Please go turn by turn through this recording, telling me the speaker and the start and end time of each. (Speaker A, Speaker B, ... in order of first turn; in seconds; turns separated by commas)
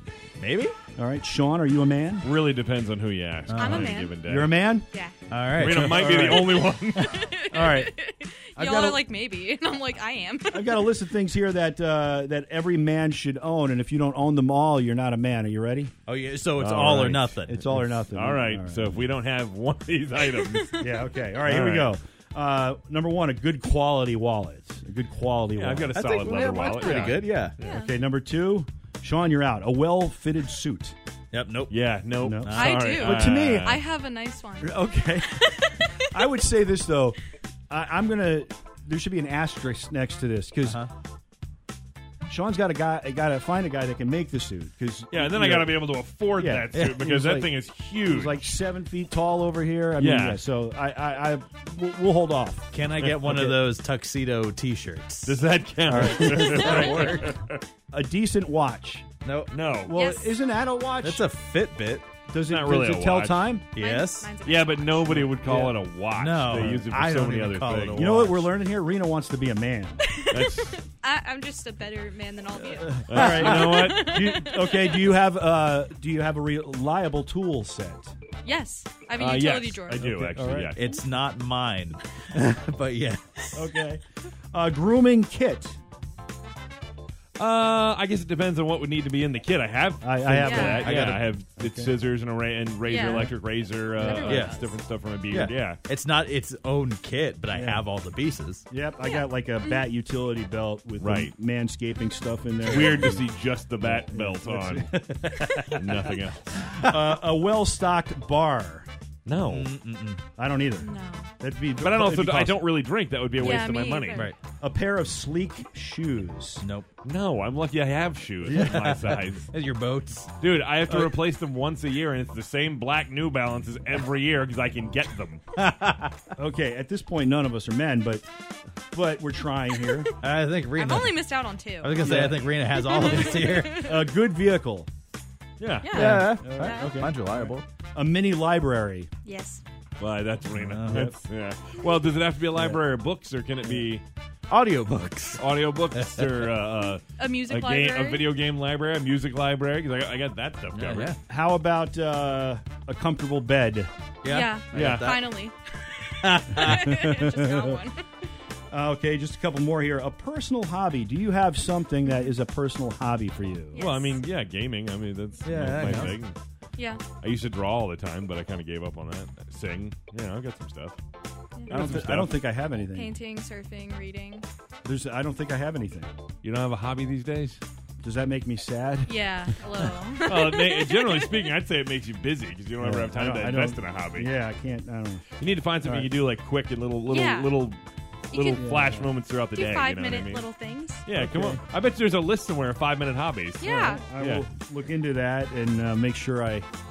Speaker A: 0.4-0.8, Speaker B: 0.9-2.3, Speaker C: 2.2-4.6, Speaker A: 3.5-3.9, Speaker D: 3.5-4.2, Speaker B: 3.9-4.9, Speaker D: 4.9-5.1, Speaker A: 5.3-6.0, Speaker C: 5.6-7.3, Speaker B: 5.6-6.7, Speaker D: 6.7-10.9, Speaker B: 7.4-7.9, Speaker B: 8.6-9.0, Speaker B: 10.5-15.9, Speaker A: 16.1-17.9, Speaker C: 16.6-17.3, Speaker B: 16.6-19.1, Speaker C: 18.1-20.9, Speaker D: 20.4-20.8, Speaker B: 20.8-26.1, Speaker C: 21.4-21.9, Speaker C: 25.5-27.8, Speaker A: 25.9-27.5, Speaker B: 26.6-30.9, Speaker D: 27.6-27.9, Speaker A: 31.3-31.7, Speaker C: 31.7-33.8, Speaker B: 32.2-33.8, Speaker A: 32.4-32.8, Speaker D: 32.5-36.0, Speaker B: 34.6-35.5, Speaker B: 36.0-37.2, Speaker B: 37.7-40.8, Speaker B: 42.3-53.6, Speaker C: 45.1-48.4, Speaker A: 46.7-47.1, Speaker C: 50.0-50.4, Speaker A: 52.7-55.4, Speaker C: 55.2-57.6, Speaker B: 55.9-57.1, Speaker A: 56.0-57.3, Speaker D: 56.4-56.8, Speaker B: 57.9-59.1, Speaker A: 59.2-59.5, Speaker C: 59.5-60.0, Speaker B: 59.8-61.3, Speaker D: 59.9-60.4, Speaker A: 61.0-62.1, Speaker B: 62.3-63.7, Speaker C: 62.4-63.4, Speaker A: 63.7-64.3, Speaker D: 63.8-65.2, Speaker C: 64.4-68.1, Speaker B: 65.1-65.8, Speaker A: 66.1-68.5, Speaker B: 67.9-70.0, Speaker D: 70.1-75.0, Speaker C: 70.2-70.8, Speaker B: 72.7-78.1, Speaker C: 73.1-74.3, Speaker D: 78.4-80.1, Speaker C: 79.2-80.8, Speaker B: 79.9-81.0, Speaker A: 80.7-83.8, Speaker B: 83.5-85.8, Speaker C: 87.4-95.8, Speaker B: 90.0-91.9, Speaker D: 90.4-90.9, Speaker A: 90.8-91.3, Speaker D: 92.8-93.4, Speaker D: 94.0-94.8, Speaker B: 94.0-94.3, Speaker A: 94.3-94.6, Speaker A: 95.3-98.6, Speaker B: 97.5-97.9, Speaker B: 98.7-105.8, Speaker D: 99.0-99.8, Speaker C: 101.0-101.3, Speaker C: 102.6-104.9, Speaker A: 105.0-106.0, Speaker C: 105.7-106.7, Speaker B: 106.5-108.9, Speaker A: 106.7-107.0, Speaker C: 109.2-109.7, Speaker A: 109.4-110.2, Speaker B: 110.3-112.7, Speaker D: 110.8-111.3, Speaker C: 111.8-114.2, Speaker D: 113.4-114.3, Speaker B: 114.6-116.7, Speaker A: 116.6-116.9, Speaker C: 117.0-119.5, Speaker B: 118.4-119.2, Speaker A: 118.5-120.3, Speaker C: 120.4-125.4, Speaker B: 120.9-121.2, Speaker A: 125.6-126.2, Speaker B: 126.3-128.3, Speaker B: 128.9-130.1, Speaker A: 130.2-131.3, Speaker D: 130.7-134.0, Speaker A: 131.8-133.8, Speaker B: 132.0-132.7, Speaker B: 133.8-134.9, Speaker C: 135.6-136.1, Speaker D: 135.8-137.0, Speaker A: 135.9-137.6, Speaker B: 135.9-139.1, Speaker D: 139.2-139.6, Speaker C: 140.0-144.0, Speaker A: 140.5-141.1, Speaker B: 140.9-141.2, Speaker A: 144.5-146.5, Speaker C: 145.4-151.1, Speaker D: 147.2-148.3, Speaker A: 150.7-151.2, Speaker B: 151.3-153.9, Speaker A: 154.2-155.3, Speaker D: 154.2-158.0, Speaker C: 154.7-155.2, Speaker A: 156.2-156.9, Speaker B: 156.7-157.7, Speaker B: 158.7-163.8, Speaker D: 163.7-164.2, Speaker C: 163.7-166.3, Speaker A: 165.4-166.2, Speaker D: 166.8-167.0, Speaker C: 167.2-171.0, Speaker D: 171.6-171.8, Speaker C: 171.7-172.4, Speaker B: 171.7-173.1, Speaker D: 172.9-174.4, Speaker B: 174.8-176.1, Speaker C: 176.4-177.6, Speaker B: 178.0-179.1, Speaker D: 179.1-181.4, Speaker C: 180.2-184.3, Speaker B: 182.8-185.2, Speaker C: 185.4-190.5, Speaker B: 185.8-186.1, Speaker D: 187.1-187.6, Speaker D: 188.3-188.7, Speaker B: 188.5-189.1, Speaker D: 189.5-191.0, Speaker C: 191.1-194.4, Speaker B: 191.1-191.6, Speaker D: 193.6-194.0, Speaker B: 193.6-196.7